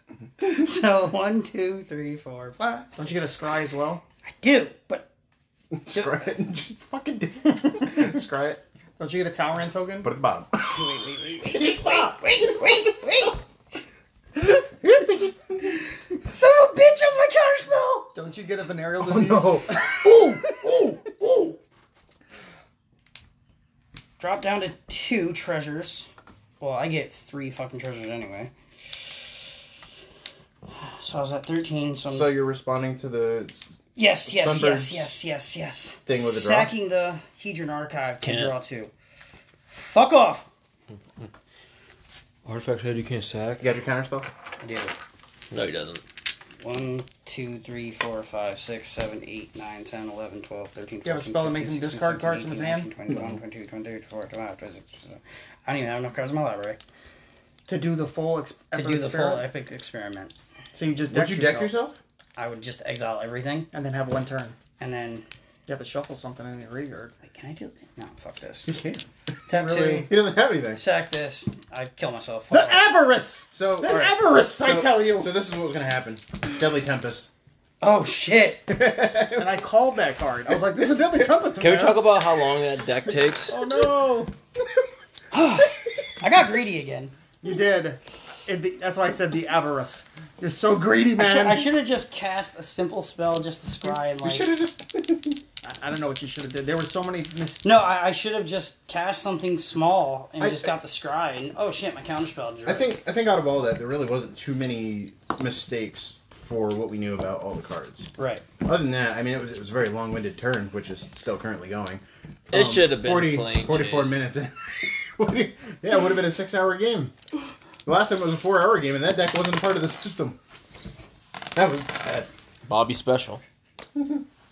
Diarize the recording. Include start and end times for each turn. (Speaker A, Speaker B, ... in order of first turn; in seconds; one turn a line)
Speaker A: 0.4-2.9
Speaker B: 2.9-4.0
Speaker A: 4.4-5.1
Speaker C: 5.7-8.2
Speaker A: 5.9-6.2
Speaker B: 7.7-10.1
Speaker C: 10.0-10.9
Speaker A: 10.7-13.4
Speaker C: 11.4-12.7
Speaker C: 14.4-15.6
Speaker A: 16.2-18.1
Speaker B: 18.1-20.2
Speaker C: 19.0-20.0
Speaker A: 20.0-21.6
Speaker A: 24.2-26.1
Speaker A: 26.6-29.1
Speaker A: 30.7-32.4
Speaker C: 32.1-35.1
Speaker A: 33.9-38.9
Speaker C: 36.0-36.7
Speaker D: 38.2-38.5
Speaker A: 39.7-40.5
Speaker D: 42.4-43.6
Speaker C: 43.6-44.3
Speaker A: 44.6-45.0
Speaker D: 45.5-46.0
Speaker A: 46.6-56.8
Speaker B: 51.0-52.9
Speaker B: 57.7-59.5
Speaker A: 58.7-60.3
Speaker B: 60.7-61.7
Speaker C: 61.1-62.0
Speaker A: 62.4-63.7
Speaker B: 63.7-64.5
Speaker A: 64.8-65.2
Speaker B: 65.7-67.1
Speaker A: 67.2-68.7
Speaker C: 68.7-69.0
Speaker A: 69.5-70.1
Speaker B: 69.5-70.1
Speaker C: 70.0-70.8
Speaker A: 70.7-72.9
Speaker B: 72.5-75.3
Speaker C: 73.5-77.3
Speaker A: 77.8-78.7
Speaker C: 78.7-79.6
Speaker B: 79.3-82.0
Speaker D: 81.6-83.5
Speaker C: 83.5-84.3
Speaker B: 83.5-84.3
Speaker A: 85.3-87.1
Speaker B: 87.4-91.7
Speaker A: 91.2-94.5
Speaker C: 93.9-95.4
Speaker B: 95.6-97.7
Speaker A: 97.6-102.9
Speaker C: 100.4-100.7
Speaker C: 102.7-108.1
Speaker A: 108.2-108.4
Speaker C: 108.6-117.1
Speaker D: 112.5-114.2
Speaker C: 117.8-120.4
Speaker C: 121.5-122.3
Speaker D: 122.7-123.4